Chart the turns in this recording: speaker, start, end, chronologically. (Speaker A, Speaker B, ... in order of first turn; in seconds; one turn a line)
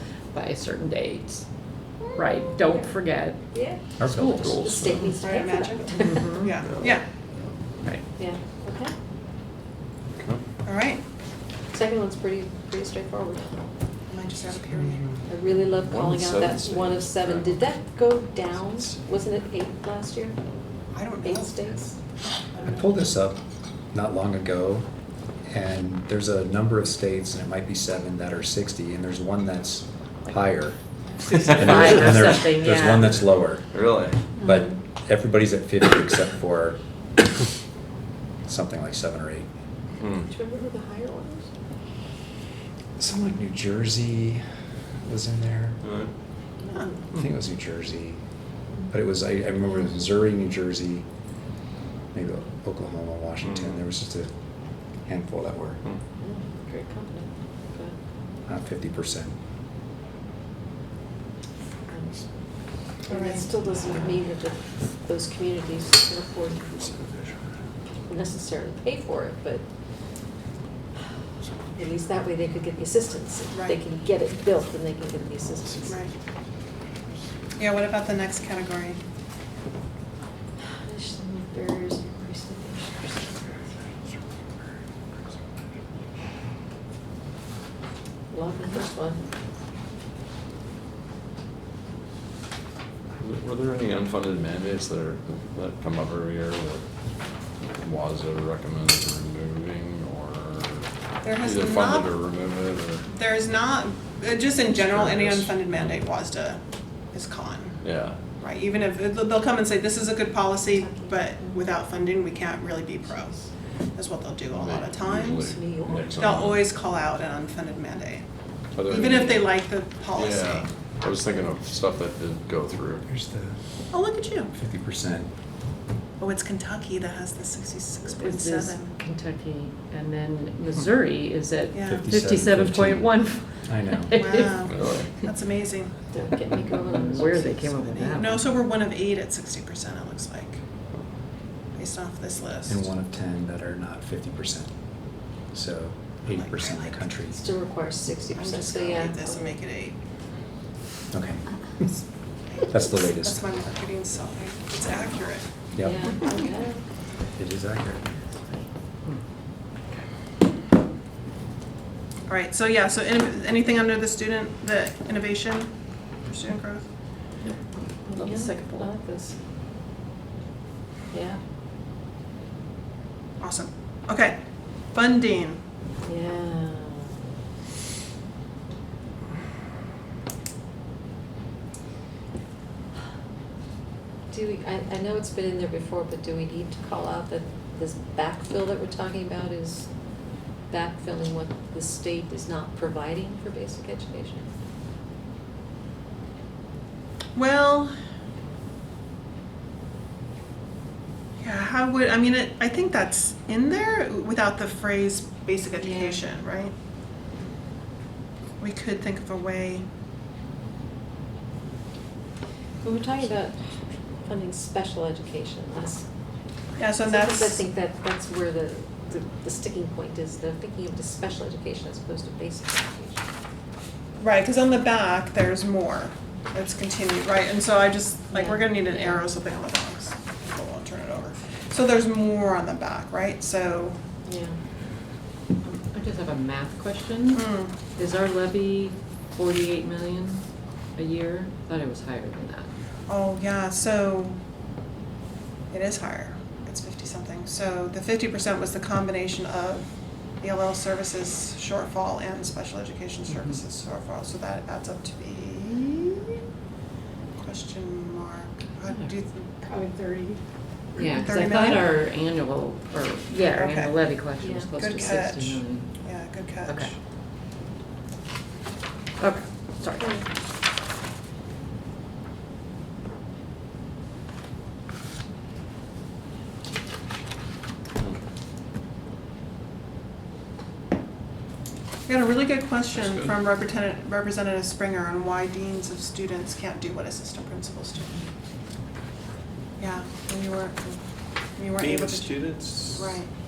Speaker A: 0.3-1.4
Speaker A: 2.1-3.4
Speaker B: 2.6-3.0
Speaker B: 3.5-6.4
Speaker C: 4.0-4.6
Speaker D: 4.1-5.2
Speaker E: 5.2-7.0
Speaker A: 6.0-6.6
Speaker D: 6.6-7.5
Speaker B: 8.2-8.9
Speaker E: 10.6-11.0
Speaker B: 11.7-13.7
Speaker E: 14.1-15.1
Speaker B: 15.2-20.4
Speaker D: 15.9-17.6
Speaker E: 20.9-21.6
Speaker B: 21.2-22.0
Speaker C: 22.6-23.4
Speaker C: 23.9-24.9
Speaker C: 25.5-30.8
Speaker A: 31.3-33.3
Speaker D: 31.3-32.1
Speaker C: 31.4-33.7
Speaker D: 33.7-34.2
Speaker C: 34.4-36.8
Speaker C: 38.5-39.5
Speaker D: 40.0-40.3
Speaker B: 40.2-41.5
Speaker C: 43.0-44.4
Speaker C: 45.0-45.8
Speaker D: 45.8-46.1
Speaker B: 46.7-47.0
Speaker C: 47.0-48.2
Speaker C: 48.9-51.1
Speaker C: 52.1-54.3
Speaker D: 53.5-53.8
Speaker C: 55.0-55.8
Speaker B: 56.2-58.0
Speaker C: 58.5-59.4
Speaker B: 61.9-62.2
Speaker B: 63.0-66.9
Speaker E: 63.1-63.5
Speaker B: 68.1-69.7
Speaker B: 71.7-76.1
Speaker E: 73.5-73.8
Speaker E: 77.6-79.0
Speaker B: 80.8-83.6
Speaker B: 88.3-89.2
Speaker D: 93.2-96.8
Speaker D: 97.8-103.0
Speaker E: 101.2-102.1
Speaker E: 103.1-106.6
Speaker D: 104.7-106.1
Speaker E: 107.1-107.8
Speaker D: 107.8-108.2
Speaker E: 108.4-113.3
Speaker B: 110.7-111.9
Speaker B: 112.6-113.5
Speaker E: 114.0-115.4
Speaker D: 114.5-116.7
Speaker B: 115.4-116.4
Speaker E: 116.2-118.2
Speaker D: 118.8-119.5
Speaker E: 118.9-120.7
Speaker D: 120.1-123.1
Speaker C: 123.1-123.6
Speaker E: 123.9-124.5
Speaker C: 124.5-125.3
Speaker E: 126.2-129.0
Speaker A: 128.0-134.7
Speaker E: 131.7-132.1
Speaker C: 131.8-134.2
Speaker E: 134.1-136.0
Speaker D: 134.7-135.1
Speaker B: 136.1-138.3
Speaker A: 136.7-138.4
Speaker E: 138.1-140.6
Speaker E: 141.8-142.9
Speaker C: 142.7-144.7
Speaker C: 145.3-147.4
Speaker E: 146.3-147.1
Speaker B: 147.3-149.6
Speaker E: 148.4-150.0
Speaker C: 151.1-151.8
Speaker E: 152.5-155.5
Speaker C: 152.7-153.6
Speaker C: 155.8-156.2
Speaker B: 155.8-156.8
Speaker C: 157.4-158.2
Speaker E: 162.3-166.9
Speaker B: 168.1-169.4
Speaker A: 168.1-168.9
Speaker B: 171.1-171.4
Speaker E: 173.4-174.4
Speaker E: 174.9-175.6
Speaker B: 176.0-177.3
Speaker B: 184.3-189.9
Speaker B: 190.7-194.5
Speaker E: 197.3-197.9
Speaker E: 201.4-206.7
Speaker B: 205.8-206.3
Speaker E: 208.6-209.9
Speaker B: 212.8-213.6
Speaker B: 214.2-216.1
Speaker E: 216.8-217.6
Speaker B: 216.9-223.2
Speaker E: 224.2-234.0
Speaker B: 228.3-229.2
Speaker B: 234.2-234.6
Speaker A: 235.6-240.4
Speaker E: 237.3-237.8
Speaker A: 241.0-242.7
Speaker E: 243.1-244.4
Speaker E: 245.7-256.4
Speaker E: 257.4-259.6
Speaker A: 258.8-259.1
Speaker B: 259.6-260.4
Speaker B: 261.0-261.4
Speaker A: 261.0-266.0
Speaker E: 261.2-261.9
Speaker E: 263.5-264.0
Speaker B: 264.4-265.2
Speaker E: 264.8-267.0
Speaker A: 266.6-266.9
Speaker A: 269.2-270.1
Speaker B: 269.9-270.3
Speaker E: 282.1-288.2
Speaker D: 283.0-283.3
Speaker E: 289.8-291.0
Speaker E: 291.6-293.3
Speaker D: 291.8-293.1